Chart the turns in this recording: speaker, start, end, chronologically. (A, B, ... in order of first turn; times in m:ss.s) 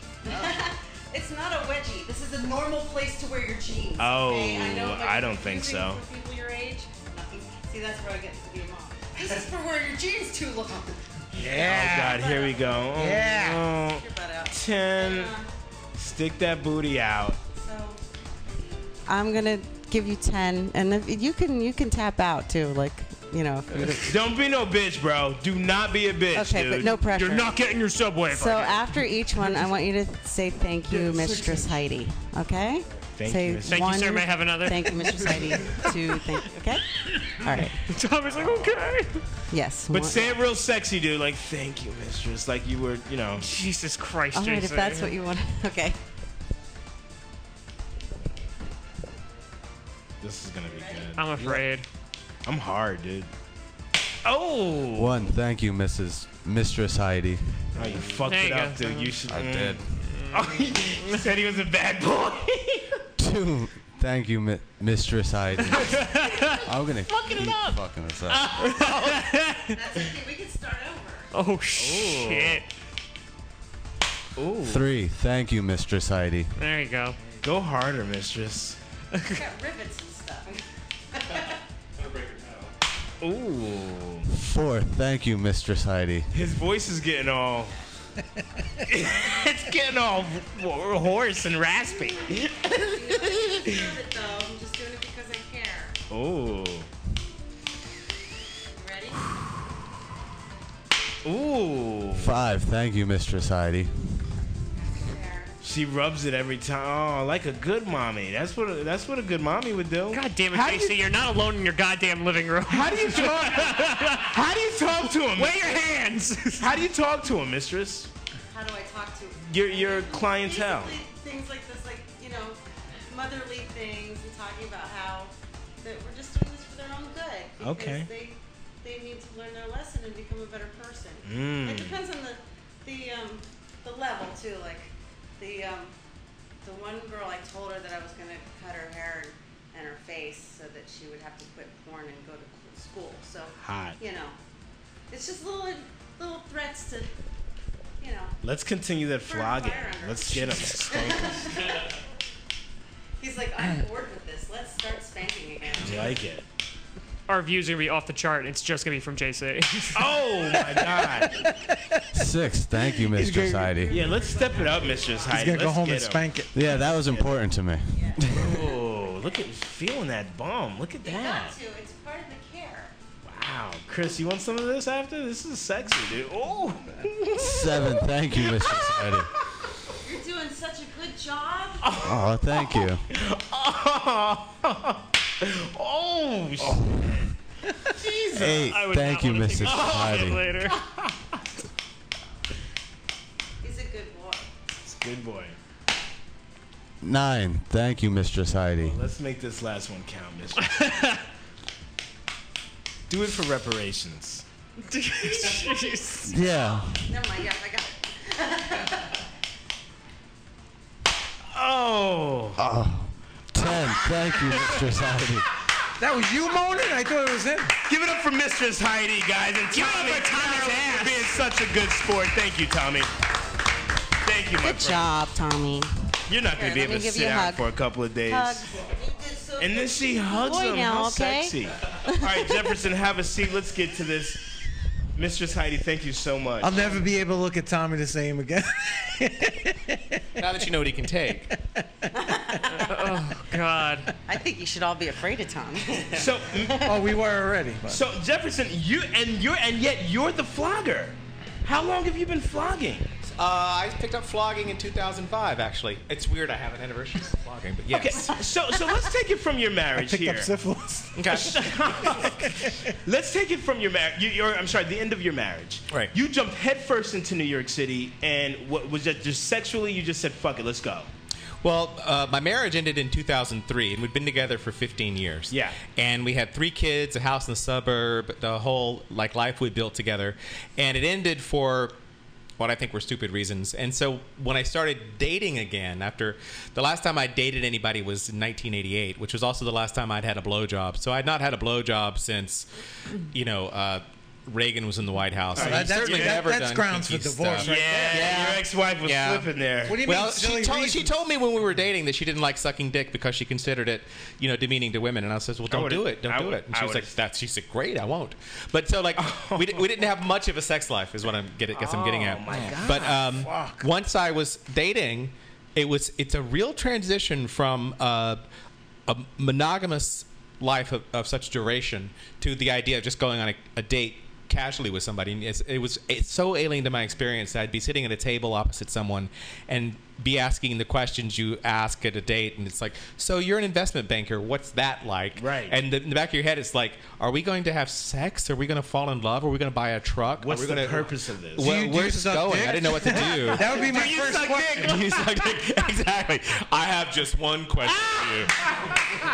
0:00.2-0:11.0 A
0:04.0-0:06.0 B
0:11.3-0:12.2 C
0:11.3-0:15.3 B
0:12.0-0:12.8 A
0:13.0-0:13.6 C
0:13.4-0:15.5 A
0:16.0-0:17.4 B
0:17.5-0:18.0 A
0:19.1-0:24.1 A
0:24.0-0:27.0 B
0:26.3-0:27.6 A
0:27.0-0:29.0 D
0:28.3-0:37.8 A
0:31.0-0:31.6 C
0:33.2-0:34.0 B
0:33.7-0:35.8 D
0:37.8-0:39.3 D
0:39.5-0:40.4 A
0:39.9-0:43.4 B
0:43.4-0:45.1 D
0:44.3-0:46.0 A
0:50.2-0:51.7 B
0:50.7-0:51.1 A
0:51.2-0:51.8 D
0:52.4-0:53.3 B
0:54.2-0:55.2 B
0:54.9-0:57.6 E
0:57.7-1:03.0 B
0:58.2-0:59.2 D
0:59.3-0:59.8 E
1:00.0-1:01.2 D
1:03.2-1:06.0 E
1:05.9-1:06.4 B
1:06.6-1:08.5 E
1:07.0-1:07.8 B
1:08.3-1:09.4 B
1:08.5-1:09.4 D
1:09.7-1:11.3 A
1:11.3-1:12.6 D
1:11.8-1:12.6 B
1:14.4-1:14.9 B
1:14.6-1:16.5 E
1:16.6-1:17.2 D
1:17.4-1:18.8 B
1:19.3-1:20.6 A
1:21.1-1:21.6 A
1:22.0-1:22.7 F
1:23.2-1:24.2 B
1:24.3-1:26.3 E
1:26.3-1:27.7 B
1:28.8-1:33.8 B
1:32.6-1:36.0 A
1:36.1-1:36.9 B
1:38.7-1:39.2 A
1:41.2-1:42.3 B
1:42.2-1:43.9 E
1:44.9-1:45.5 A
1:45.6-1:51.1 B
1:50.1-1:54.4 D
1:52.6-1:55.9 B
1:55.3-1:56.7 D
1:56.6-1:58.1 B
1:58.5-2:15.9 A
1:59.5-2:01.0 B
2:07.6-2:08.1 B
2:11.2-2:12.0 B
2:16.6-2:24.4 A
2:23.6-2:24.0 B
2:25.1-2:27.1 A
2:28.0-2:28.3 A
2:28.4-2:31.7 B
2:29.2-2:31.8 A
2:33.2-2:36.1 A
2:35.8-2:36.4 B
2:37.3-2:40.2 D
2:39.9-2:41.4 B
2:41.4-2:41.9 C
2:42.1-2:44.0 E
2:43.0-2:43.7 C
2:43.9-2:47.3 B
2:43.9-2:45.3 A
2:45.3-2:46.6 C
2:46.5-2:48.8 E
2:47.9-2:48.2 A
2:48.3-2:51.6 B
2:51.0-2:52.9 A
2:53.2-2:59.3 B
2:57.3-2:59.3 E
3:00.0-3:01.9 A
3:01.8-3:07.3 B
3:02.0-3:03.0 E
3:06.6-3:07.0 E
3:07.9-3:08.7 B
3:08.3-3:10.4 E
3:08.3-3:10.8 D
3:09.6-3:11.0 B
3:13.6-3:14.5 A
3:14.8-3:15.6 B
3:17.0-3:19.0 E
3:18.8-3:21.0 B
3:20.8-3:21.1 D
3:23.1-3:24.4 B
3:24.9-3:26.3 D
3:26.3-3:27.0 E
3:27.0-3:29.1 A
3:31.5-3:32.6 B
3:32.6-3:35.4 E
3:36.0-3:37.7 C
3:37.8-3:43.1 B
3:39.7-3:41.5 D
3:44.2-3:45.1 B
3:44.6-3:45.9 A
3:46.3-3:48.7 B
3:46.6-3:47.6 A
3:48.3-3:52.5 A
3:49.6-3:54.4 B
3:55.1-3:57.0 B
3:56.6-4:00.4 C
4:00.4-4:01.5 F
4:02.1-4:02.9 A
4:02.8-4:04.1 D
4:04.2-4:06.9 A
4:06.1-4:06.9 B
4:06.8-4:08.0 C
4:07.9-4:13.1 B
4:13.3-4:18.4 F
4:17.9-4:20.5 B
4:19.9-4:22.8 C
4:21.2-4:21.6 F
4:21.3-4:31.1 B
4:31.6-4:41.9 F
4:35.5-4:35.8 B
4:42.6-4:52.7 F
4:53.3-4:59.5 F
4:55.5-4:56.4 B
4:55.5-4:58.6 C
4:57.6-5:00.0 B
4:59.9-5:01.1 C
5:00.0-5:18.4 F
5:05.7-5:07.1 B
5:09.2-5:09.8 B
5:11.7-5:13.4 B
5:12.5-5:13.8 C
5:19.1-5:48.9 F
5:35.4-5:35.8 B
5:40.4-5:41.7 B
5:41.6-5:45.0 C
5:43.1-5:45.2 B
5:47.9-5:48.9 B